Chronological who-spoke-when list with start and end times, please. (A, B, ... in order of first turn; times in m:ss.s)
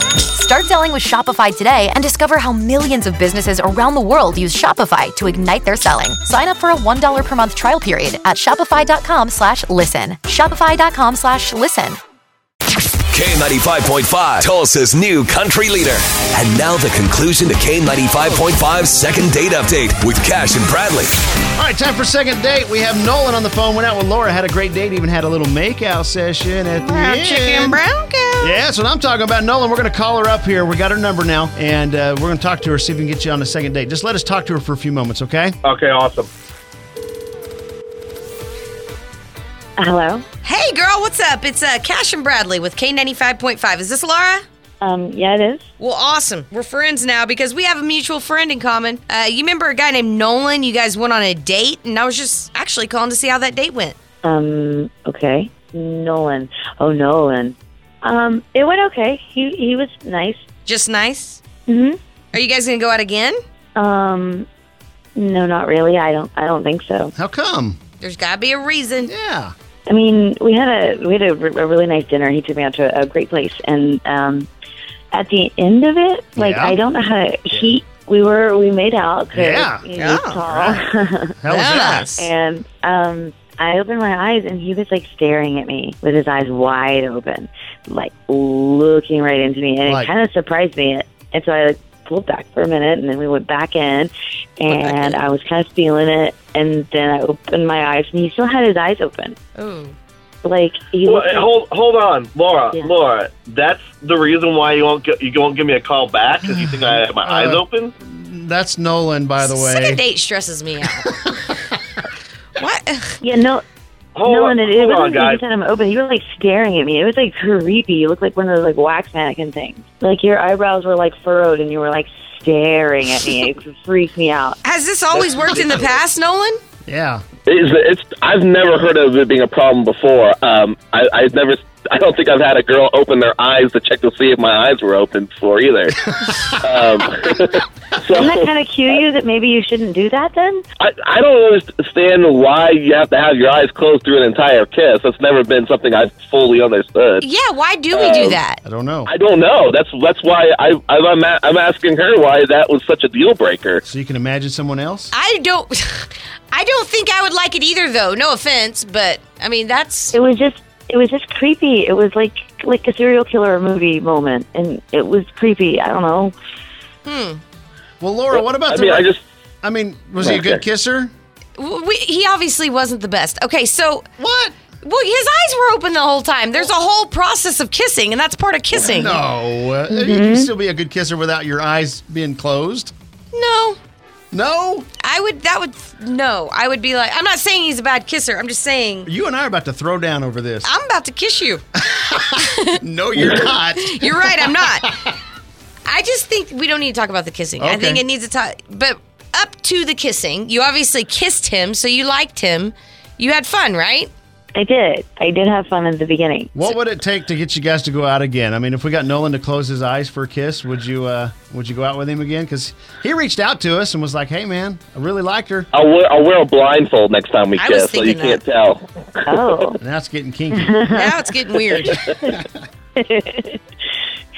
0:00.3-0:12.0 A
0:13.1-0:21.1 B
0:21.6-0:27.8 C
0:26.8-0:28.6 D
0:28.4-0:35.6 C
0:35.6-0:36.3 E
0:39.8-0:40.2 F
0:40.4-0:44.4 D
0:44.8-0:45.6 F
0:45.8-0:54.0 D
0:54.2-1:00.4 F
1:00.7-1:01.4 D
1:01.7-1:02.0 F
1:02.3-1:03.4 D
1:03.8-1:04.5 F
1:05.2-1:07.1 F
1:07.2-1:07.8 C
1:08.0-1:09.1 D
1:09.0-1:09.5 C
1:09.9-1:14.5 F
1:15.1-1:21.3 F
1:16.4-1:16.8 C
1:19.3-1:19.9 C
1:20.0-1:20.4 D
1:20.4-1:20.8 C
1:21.4-1:22.1 C
1:21.5-1:22.2 D
1:22.2-1:39.4 F
1:29.9-1:30.1 C
1:34.7-1:35.2 D
1:39.6-1:40.0 D
1:40.4-1:41.5 F
1:41.0-1:47.9 E
1:46.4-1:50.0 C
1:49.4-1:51.3 D
1:51.1-1:51.8 C
1:52.6-1:53.2 D
1:53.2-1:53.6 F
1:54.2-1:55.4 E
1:54.2-2:04.6 F
2:04.6-2:06.6 D
2:05.1-2:06.0 E
2:06.9-2:07.2 C
2:07.5-2:19.0 G
2:18.1-2:20.6 F
2:20.8-2:27.3 G
2:27.2-2:28.6 D
2:27.9-2:28.4 G
2:28.6-2:29.1 C
2:29.1-2:33.8 G
2:33.8-2:35.1 C
2:35.1-2:40.2 D
2:40.1-2:46.3 F
2:47.1-2:47.4 D
2:48.0-2:49.1 C
2:48.4-2:49.2 G
2:49.6-2:51.1 C
2:50.2-2:50.6 G
2:51.6-2:54.1 D
2:54.2-2:54.6 C
2:54.8-2:59.2 D
2:58.7-3:02.9 C
2:59.9-3:00.5 F
3:03.3-3:03.8 D
3:04.3-3:04.9 C
3:05.0-3:09.1 D
3:09.1-3:10.7 C
3:10.6-3:11.6 D
3:11.8-3:15.1 C
3:12.4-3:15.0 D
3:15.9-3:24.1 D
3:17.6-3:18.0 C
3:24.6-3:26.5 F
3:26.5-3:35.7 C
3:35.7-3:39.4 G
3:37.6-3:38.4 D
3:39.3-3:39.8 F
3:39.8-3:40.7 C
3:40.5-3:41.2 F
3:40.9-3:42.0 D
3:41.8-3:42.4 F
3:43.0-3:43.6 F